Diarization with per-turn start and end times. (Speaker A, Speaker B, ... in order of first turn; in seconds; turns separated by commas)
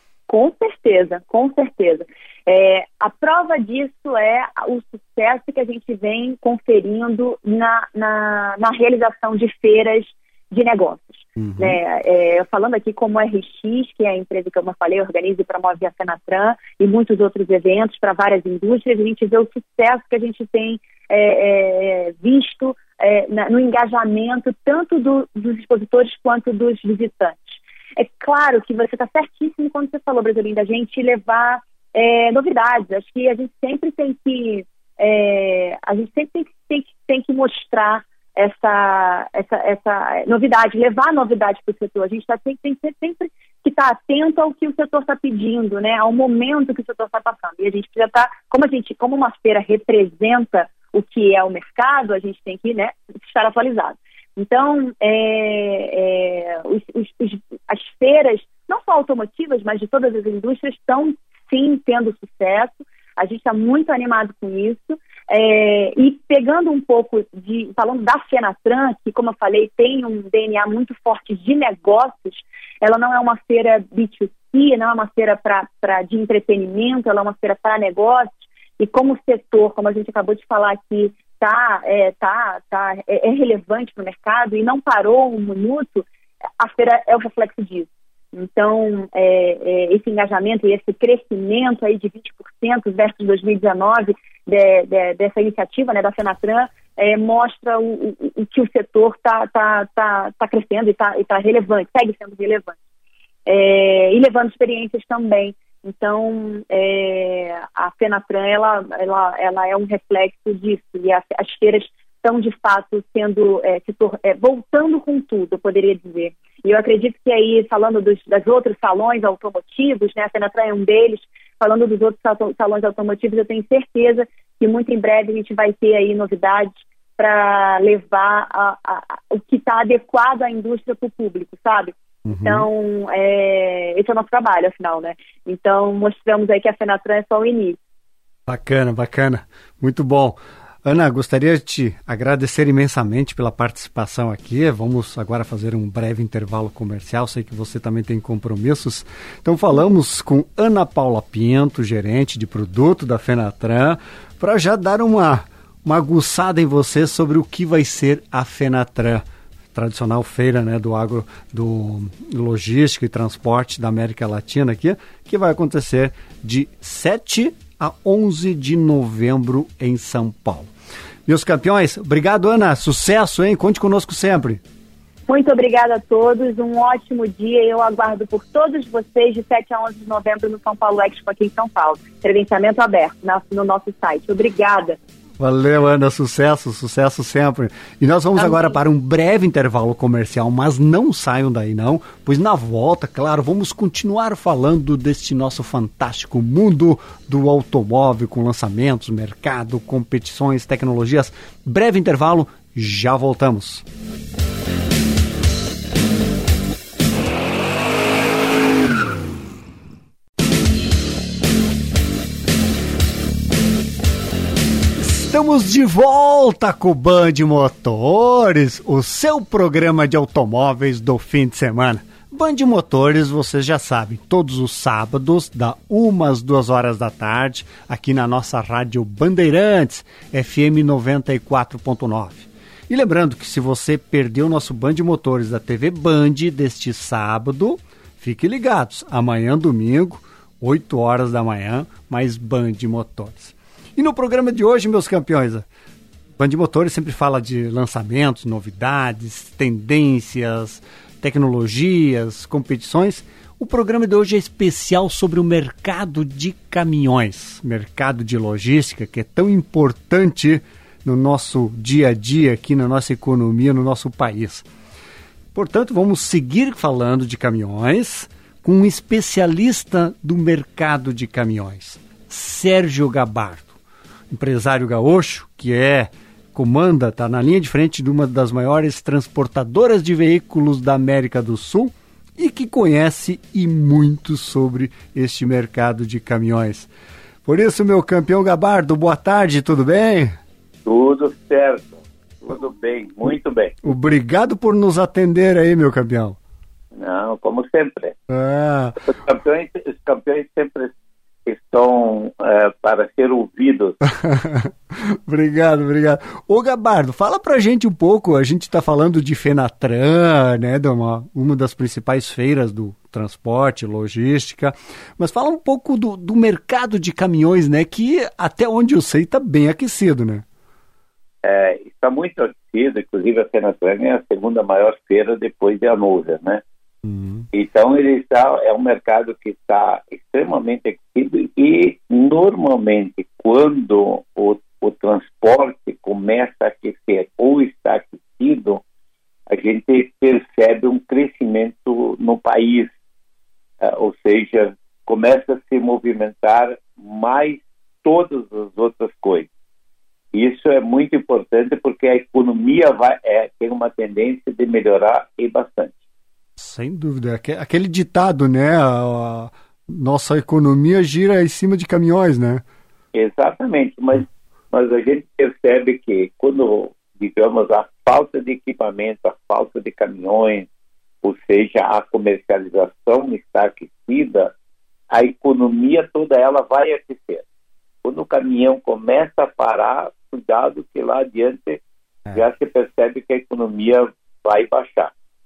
Speaker A: 0.3-86.0, Speaker B: 11.4-11.8, Speaker A: 86.6-102.8, Speaker A: 103.5-137.8, Speaker B: 132.2-132.7, Speaker B: 138.5-159.2, Speaker B: 159.7-170.7, Speaker B: 171.2-174.6, Speaker A: 175.3-185.0, Speaker B: 185.4-203.8, Speaker A: 188.3-188.8, Speaker B: 215.0-245.7, Speaker B: 246.4-264.7, Speaker B: 265.5-273.8, Speaker B: 274.3-286.9, Speaker B: 287.4-290.4, Speaker C: 290.8-293.9, Speaker B: 293.8-296.4, Speaker C: 296.9-298.1, Speaker B: 298.3-299.0, Speaker C: 299.0-300.9, Speaker C: 301.4-304.0, Speaker B: 304.1-320.4, Speaker C: 321.4-326.6, Speaker B: 327.0-327.5, Speaker C: 327.5-338.8, Speaker C: 339.5-342.9, Speaker C: 343.8-349.5, Speaker C: 350.3-356.0, Speaker B: 356.6-362.6, Speaker C: 363.1-370.7, Speaker C: 371.2-374.5, Speaker C: 375.1-377.4, Speaker C: 378.0-381.8, Speaker C: 382.3-385.1